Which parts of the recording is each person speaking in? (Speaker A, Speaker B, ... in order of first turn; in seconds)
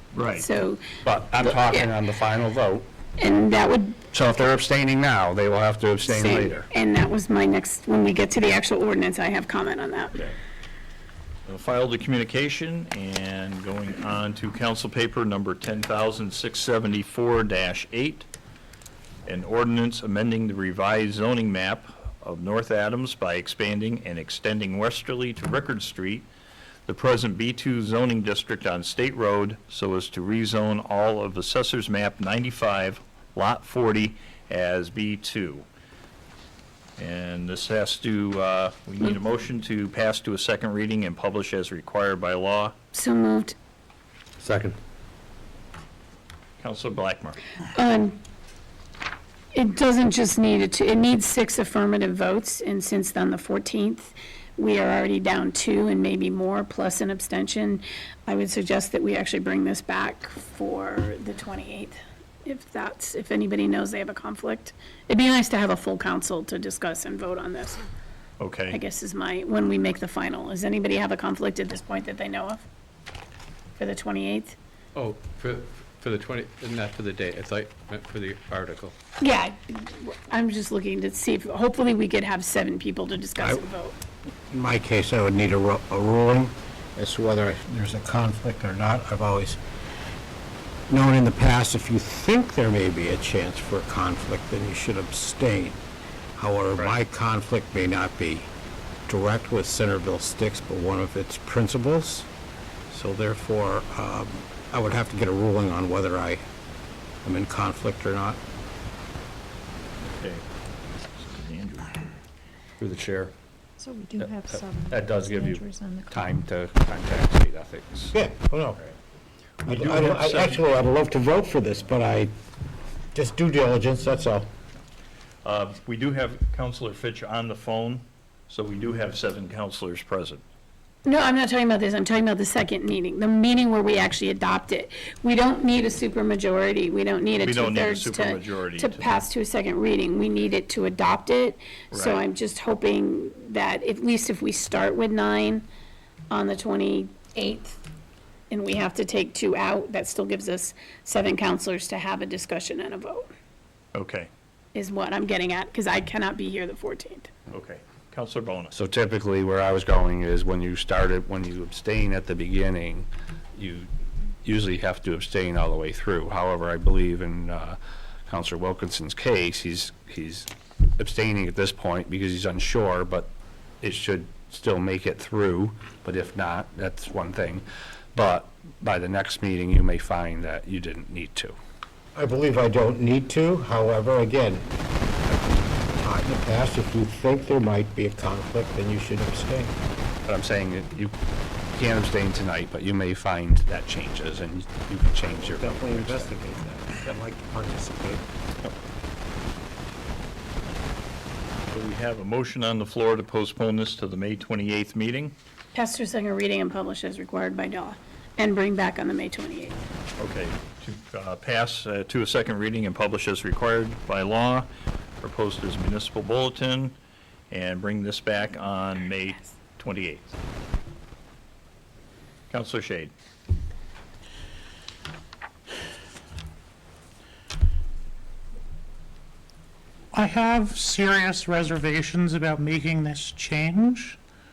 Speaker A: 0.1-0.5, 11.5-18.3, 19.2-26.3, 26.9-35.7, 37.0-42.7, 46.6-47.4, 68.4-68.8, 110.0-110.4, 111.0-112.1, 119.7-120.7, 125.4-130.4, 137.4-139.2, 141.9-142.2, 153.9-154.3, 157.5-158.7, 201.7-205.3, 210.2-214.7, 215.2-217.0, 217.5-220.3, 222.5-223.1
Speaker B: 0.3-0.8, 1.4-1.9, 3.2-4.0, 6.0-10.2, 42.9-43.5, 47.7-48.2, 49.5-67.8, 68.7-72.6, 73.8-74.6, 79.2-84.0, 131.1-145.7, 146.3-147.8, 148.5-153.3, 154.7-157.3, 205.7-209.8
Speaker C: 1.0-2.9, 4.1-6.7, 112.8-113.3, 114.2-118.2, 158.7-163.9, 164.4-173.3, 173.8-181.6, 190.3-191.1, 191.7-196.3
Speaker D: 74.9-79.0
Speaker E: 84.5-89.6, 90.9-95.8, 96.4-98.5, 99.1-102.3, 102.9-106.4, 107.2-108.4, 118.1-118.8, 119.6-122.3, 123.1-124.5, 182.2-184.7, 185.3-189.7, 195.3-198.2
Speaker F: 113.8-116.4
Speaker G: 230.1-234.2